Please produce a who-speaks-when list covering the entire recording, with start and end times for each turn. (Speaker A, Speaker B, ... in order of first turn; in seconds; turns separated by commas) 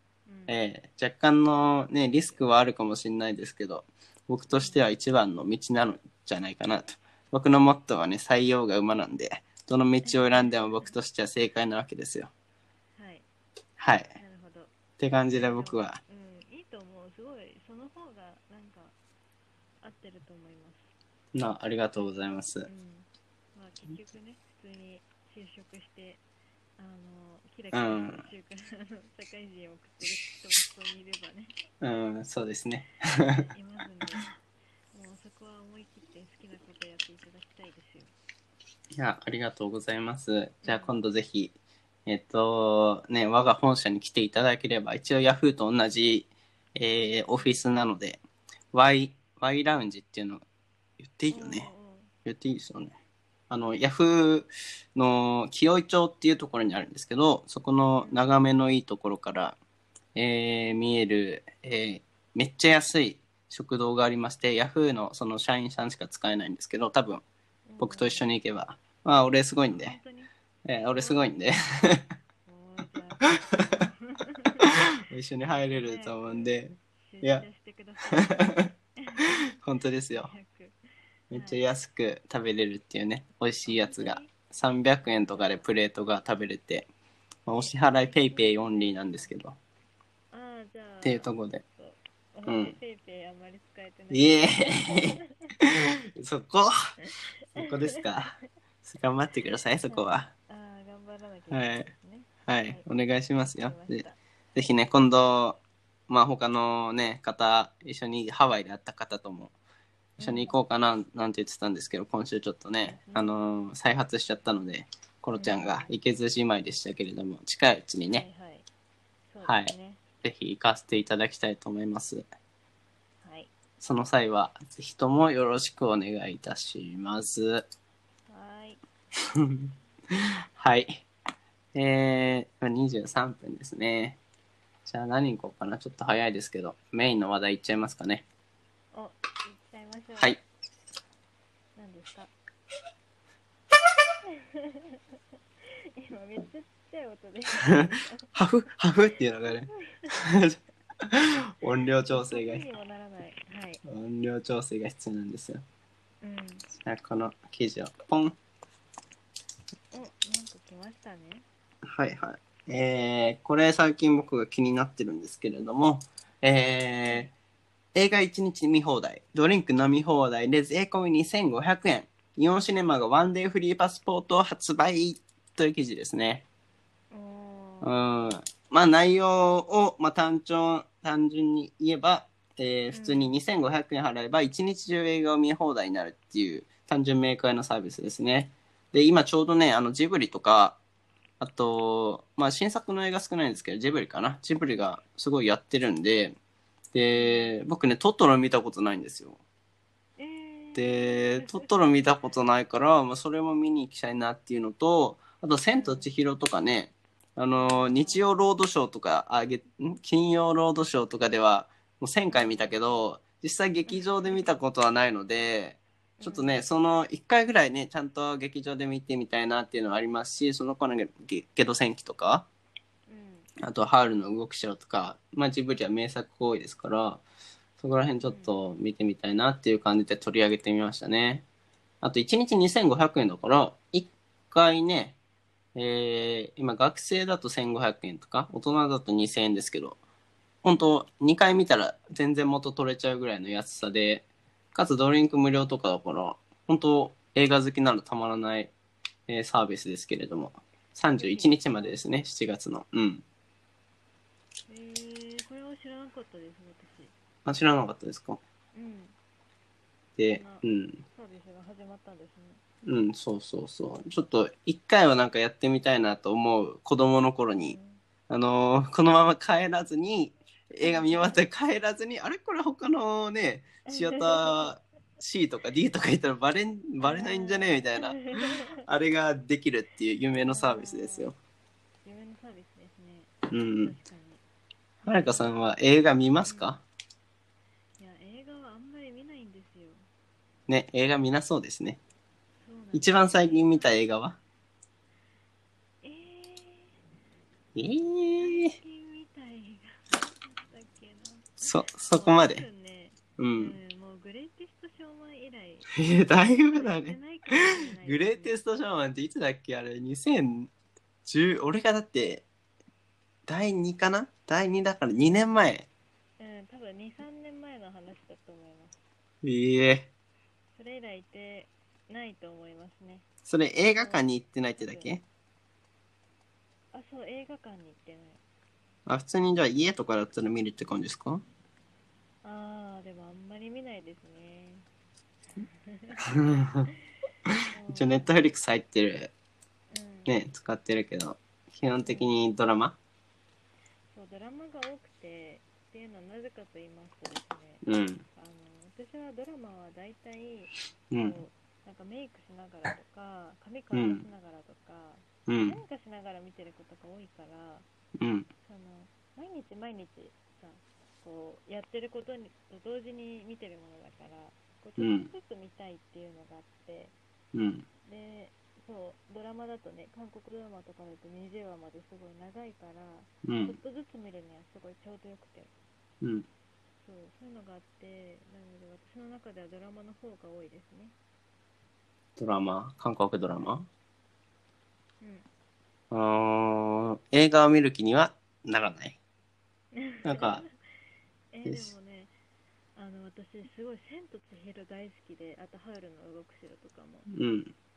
Speaker A: 0.2-0.6, Speaker B: 0.5-12.3, Speaker A: 4.5-4.8, Speaker A: 10.0-10.9, Speaker A: 12.9-13.2, Speaker B: 13.8-14.1, Speaker A: 14.1-14.7, Speaker B: 15.0-16.0, Speaker A: 15.3-18.9, Speaker A: 19.8-20.9, Speaker B: 21.3-22.7, Speaker A: 22.6-26.2, Speaker A: 26.8-31.5, Speaker B: 27.7-28.2, Speaker B: 31.8-33.4, Speaker A: 33.4-34.3, Speaker A: 34.9-38.1, Speaker B: 38.9-41.5, Speaker A: 40.6-41.0, Speaker B: 42.1-48.2, Speaker A: 47.3-47.6, Speaker B: 48.7-50.4, Speaker B: 51.0-51.7, Speaker A: 51.3-52.1, Speaker B: 52.2-52.9, Speaker B: 53.5-59.5, Speaker A: 58.0-58.3, Speaker B: 60.1-67.2, Speaker A: 67.7-68.3, Speaker B: 67.8-70.0, Speaker A: 69.8-70.3, Speaker B: 70.6-72.0, Speaker A: 71.0-71.4, Speaker A: 72.5-74.7, Speaker B: 74.8-77.5, Speaker A: 75.8-79.4, Speaker B: 78.1-78.7, Speaker B: 79.6-80.3, Speaker A: 80.1-80.8, Speaker B: 81.3-86.9, Speaker A: 81.3-81.7, Speaker A: 83.7-84.5, Speaker A: 85.0-85.7, Speaker B: 87.5-89.6, Speaker A: 87.7-89.3, Speaker A: 90.3-95.5, Speaker B: 91.0-91.6, Speaker B: 92.5-92.7, Speaker B: 94.1-96.9, Speaker B: 97.5-100.3, Speaker A: 97.6-98.3, Speaker A: 99.9-102.8, Speaker B: 101.5-101.9, Speaker B: 102.5-109.5, Speaker A: 103.4-104.2, Speaker A: 110.2-110.6, Speaker B: 110.2-118.2, Speaker A: 112.8-113.3, Speaker A: 115.3-116.0, Speaker A: 118.1-118.7, Speaker A: 119.3-120.0, Speaker B: 119.4-122.2, Speaker A: 123.2-123.5, Speaker B: 123.8-127.7, Speaker A: 128.3-128.8, Speaker B: 129.3-131.0, Speaker B: 131.7-134.2, Speaker B: 134.8-138.2, Speaker A: 138.9-140.3, Speaker A: 141.8-142.3, Speaker A: 144.2-148.3, Speaker B: 148.3-152.6, Speaker A: 149.4-150.2, Speaker A: 152.1-153.8, Speaker B: 153.8-155.6, Speaker A: 156.2-156.7, Speaker B: 156.8-158.3, Speaker A: 159.9-161.4, Speaker B: 161.8-167.3, Speaker A: 167.0-167.3, Speaker B: 167.9-176.4, Speaker A: 177.1-178.0, Speaker B: 177.8-190.8, Speaker A: 182.9-183.3, Speaker B: 191.4-196.3, Speaker B: 196.9-199.4, Speaker A: 197.1-197.6, Speaker A: 200.2-201.8, Speaker B: 200.8-222.5, Speaker A: 205.7-206.1, Speaker A: 207.6-208.3, Speaker A: 212.3-212.9, Speaker A: 213.9-214.5, Speaker A: 216.2-216.6, Speaker A: 223.1-223.5, Speaker B: 223.6-227.2, Speaker B: 227.8-231.4, Speaker A: 228.2-228.6, Speaker B: 232.0-235.2, Speaker B: 235.7-240.0, Speaker B: 240.6-248.7, Speaker B: 249.3-253.2, Speaker A: 251.2-252.0, Speaker A: 254.7-257.1, Speaker B: 257.4-258.4, Speaker A: 258.7-259.1, Speaker B: 260.2-261.0, Speaker A: 260.3-262.6, Speaker B: 262.8-267.8, Speaker A: 267.5-268.0, Speaker B: 268.3-281.3, Speaker A: 270.8-271.4, Speaker A: 273.9-274.7, Speaker A: 277.0-278.8, Speaker A: 280.5-281.3, Speaker A: 282.0-284.4, Speaker B: 283.5-283.9, Speaker A: 285.0-285.6, Speaker B: 285.1-286.8, Speaker A: 286.4-286.8, Speaker A: 288.0-290.1, Speaker B: 290.7-292.0, Speaker A: 292.6-294.1, Speaker B: 292.9-294.4, Speaker A: 296.0-297.0, Speaker B: 297.7-298.7, Speaker A: 298.4-305.9, Speaker B: 301.6-302.6, Speaker B: 303.4-303.8, Speaker B: 305.9-310.7, Speaker A: 306.6-308.6, Speaker B: 311.2-312.4, Speaker B: 313.5-315.9, Speaker A: 316.4-319.0, Speaker B: 319.4-320.1, Speaker A: 320.7-323.2, Speaker B: 323.4-325.2, Speaker A: 323.9-324.2, Speaker A: 324.8-325.1, Speaker A: 326.9-328.4, Speaker B: 329.1-331.4, Speaker A: 332.4-334.9, Speaker A: 335.7-336.6, Speaker B: 336.2-336.9, Speaker B: 337.5-339.3, Speaker A: 337.7-338.4, Speaker A: 339.9-340.3, Speaker B: 340.2-343.0, Speaker A: 342.0-342.4, Speaker A: 344.1-357.9, Speaker B: 347.8-348.2, Speaker B: 351.1-351.4, Speaker B: 353.9-354.2, Speaker B: 355.5-355.8, Speaker B: 358.2-358.5, Speaker A: 358.6-367.1, Speaker B: 365.0-365.3, Speaker B: 367.5-367.8, Speaker A: 368.0-375.7, Speaker B: 373.4-373.8, Speaker A: 377.0-381.1, Speaker B: 382.4-383.9, Speaker A: 385.2-385.4, Speaker B: 386.1-389.2, Speaker A: 389.9-390.7, Speaker B: 390.2-390.6, Speaker A: 391.5-392.3, Speaker B: 391.6-391.9, Speaker A: 392.9-397.3, Speaker B: 397.3-397.7